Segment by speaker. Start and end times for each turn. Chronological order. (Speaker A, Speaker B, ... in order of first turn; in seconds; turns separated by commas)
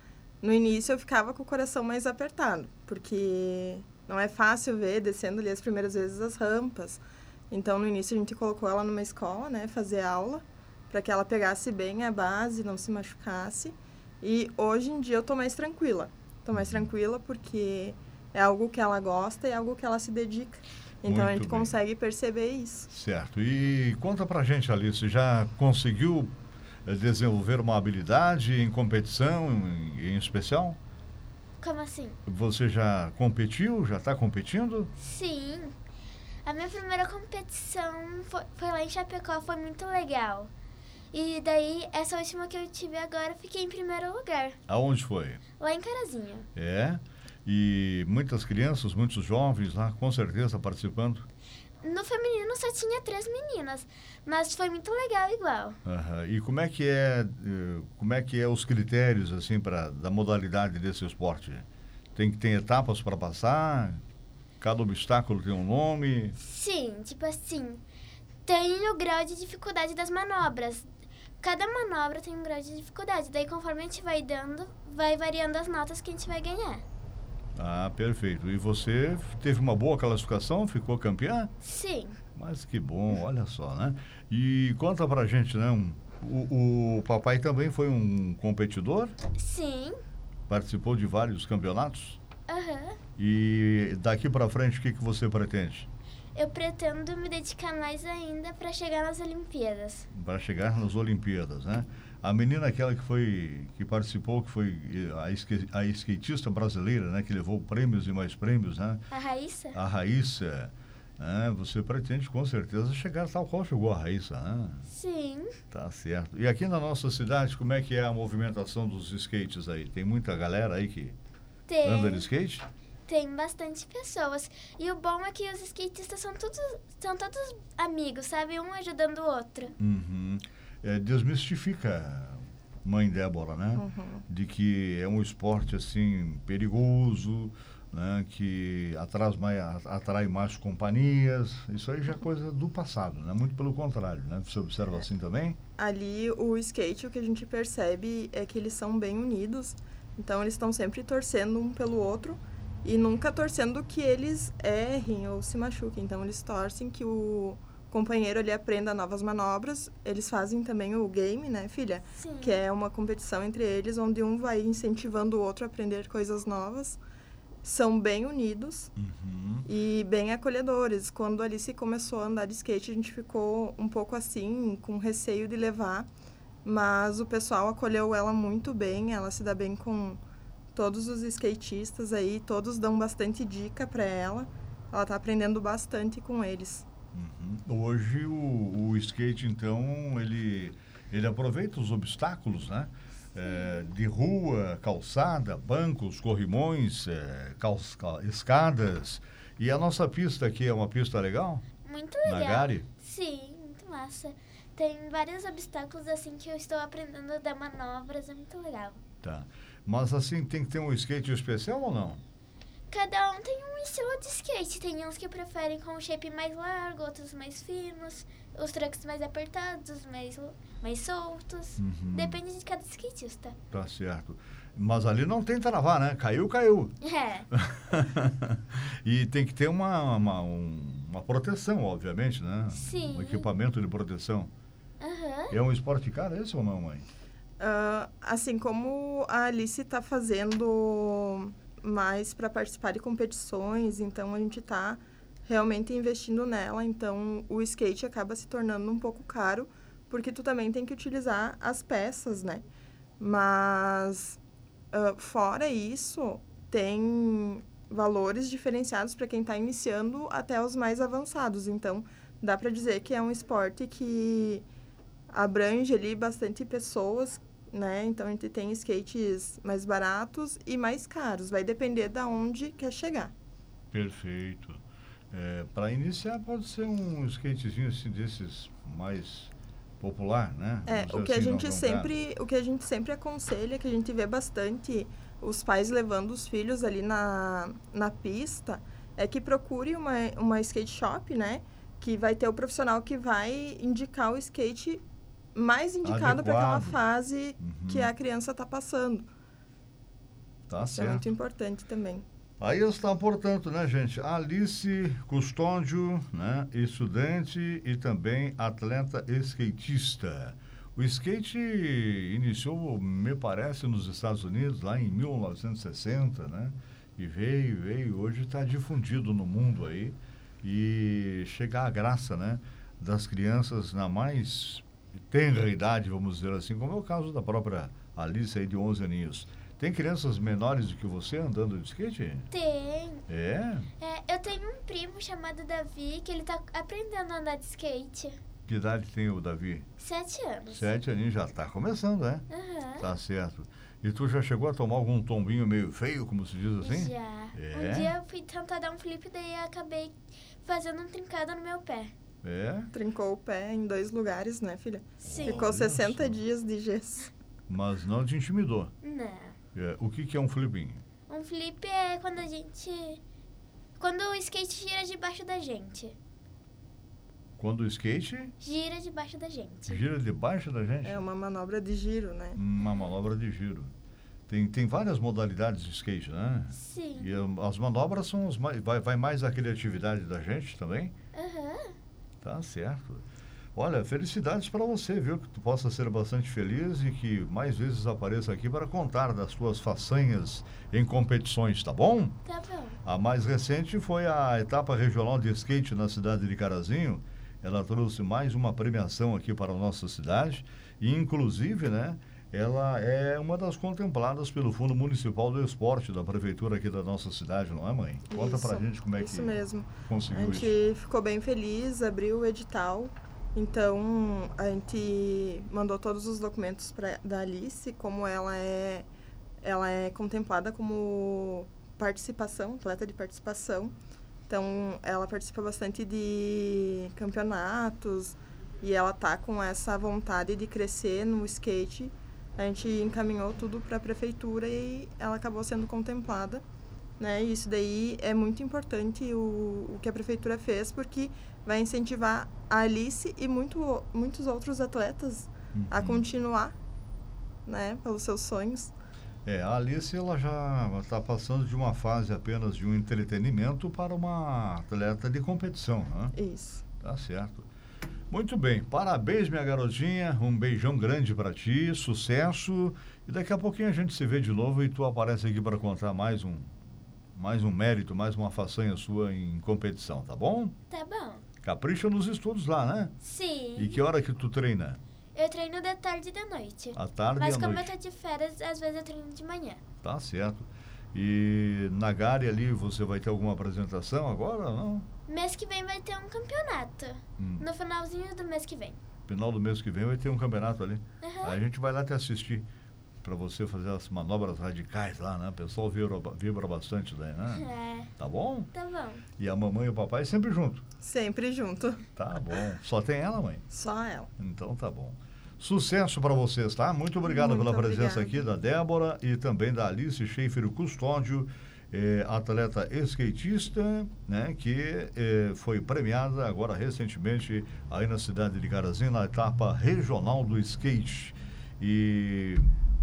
Speaker A: 0.4-22.9, Speaker B: 16.5-16.9, Speaker B: 21.0-21.8, Speaker B: 22.9-26.3, Speaker B: 26.8-30.8, Speaker C: 31.6-32.2, Speaker B: 32.2-34.9, Speaker C: 35.0-35.8, Speaker C: 36.4-40.5, Speaker C: 41.1-44.6, Speaker B: 44.7-45.4, Speaker C: 45.6-46.5, Speaker B: 46.5-51.3, Speaker C: 51.8-55.8, Speaker B: 55.8-64.0, Speaker B: 64.6-66.4, Speaker C: 66.4-67.8, Speaker C: 68.5-70.9, Speaker C: 71.4-76.8, Speaker B: 77.5-81.5, Speaker C: 81.6-82.2, Speaker B: 82.3-89.2, Speaker C: 89.3-90.0, Speaker B: 90.5-92.2, Speaker C: 92.5-93.0, Speaker B: 93.2-95.9, Speaker C: 96.3-100.1, Speaker B: 100.1-109.0, Speaker C: 109.1-109.8, Speaker B: 109.7-114.9, Speaker C: 114.9-115.5, Speaker B: 115.7-121.2, Speaker C: 121.7-122.3, Speaker B: 121.8-122.7, Speaker C: 123.1-129.7, Speaker B: 129.8-145.6, Speaker A: 133.8-134.2, Speaker A: 145.8-167.0, Speaker C: 162.2-162.6, Speaker A: 167.6-168.9, Speaker B: 169.0-169.7, Speaker A: 169.6-176.1, Speaker A: 176.6-180.2, Speaker A: 180.7-186.8, Speaker B: 187.1-201.6, Speaker C: 201.8-209.0, Speaker B: 202.2-202.8, Speaker B: 209.2-212.2, Speaker C: 212.9-223.6, Speaker B: 221.8-222.4, Speaker B: 223.7-226.9, Speaker C: 227.0-227.5, Speaker B: 227.5-234.5, Speaker C: 232.7-233.5, Speaker C: 235.0-235.6, Speaker B: 235.5-237.1, Speaker A: 237.6-252.6, Speaker A: 253.2-254.4, Speaker A: 254.9-264.6, Speaker A: 265.3-273.3, Speaker B: 273.9-274.8, Speaker B: 275.3-282.1, Speaker A: 280.9-295.0, Speaker A: 295.5-299.3, Speaker B: 296.0-297.0, Speaker B: 297.6-298.1, Speaker B: 300.7-301.2, Speaker A: 300.8-302.2, Speaker B: 302.6-332.5, Speaker C: 332.5-333.2, Speaker B: 333.3-333.9, Speaker C: 334.0-338.4, Speaker B: 338.7-339.9, Speaker C: 340.0-341.0, Speaker B: 340.7-342.4, Speaker C: 342.5-343.1, Speaker B: 343.0-348.2, Speaker C: 346.8-352.1, Speaker B: 352.4-352.9, Speaker A: 352.9-357.3, Speaker B: 355.2-356.4, Speaker C: 355.2-355.6, Speaker B: 357.7-358.9, Speaker C: 359.0-359.6, Speaker B: 359.7-361.0, Speaker C: 361.3-363.2, Speaker C: 364.0-366.2, Speaker B: 367.6-368.5, Speaker C: 368.6-370.0, Speaker B: 369.9-371.2, Speaker A: 371.0-372.6, Speaker B: 372.5-373.9, Speaker B: 374.5-381.1, Speaker C: 376.7-377.4, Speaker C: 381.3-381.9, Speaker B: 382.4-383.2, Speaker B: 383.8-392.4, Speaker C: 392.4-393.0, Speaker B: 393.0-410.8, Speaker A: 408.3-419.1, Speaker A: 419.6-423.9, Speaker A: 424.5-436.6, Speaker A: 437.2-446.7, Speaker B: 445.7-446.2, Speaker A: 447.6-448.9, Speaker B: 449.4-456.4, Speaker A: 456.3-456.8, Speaker B: 457.0-457.7, Speaker B: 458.3-466.8, Speaker B: 467.3-470.7, Speaker C: 470.9-471.4, Speaker B: 471.6-473.1, Speaker C: 473.2-474.0, Speaker B: 473.8-475.0, Speaker C: 475.3-479.8, Speaker B: 476.9-477.9, Speaker B: 480.0-485.1, Speaker C: 485.3-489.0, Speaker B: 487.4-487.7, Speaker B: 489.3-492.6, Speaker C: 491.2-491.6, Speaker B: 493.2-498.7, Speaker C: 497.5-498.1, Speaker C: 498.7-499.2, Speaker B: 499.4-500.8, Speaker A: 501.0-502.0, Speaker B: 502.1-503.6, Speaker A: 503.7-504.3, Speaker B: 504.4-522.7, Speaker A: 507.2-508.4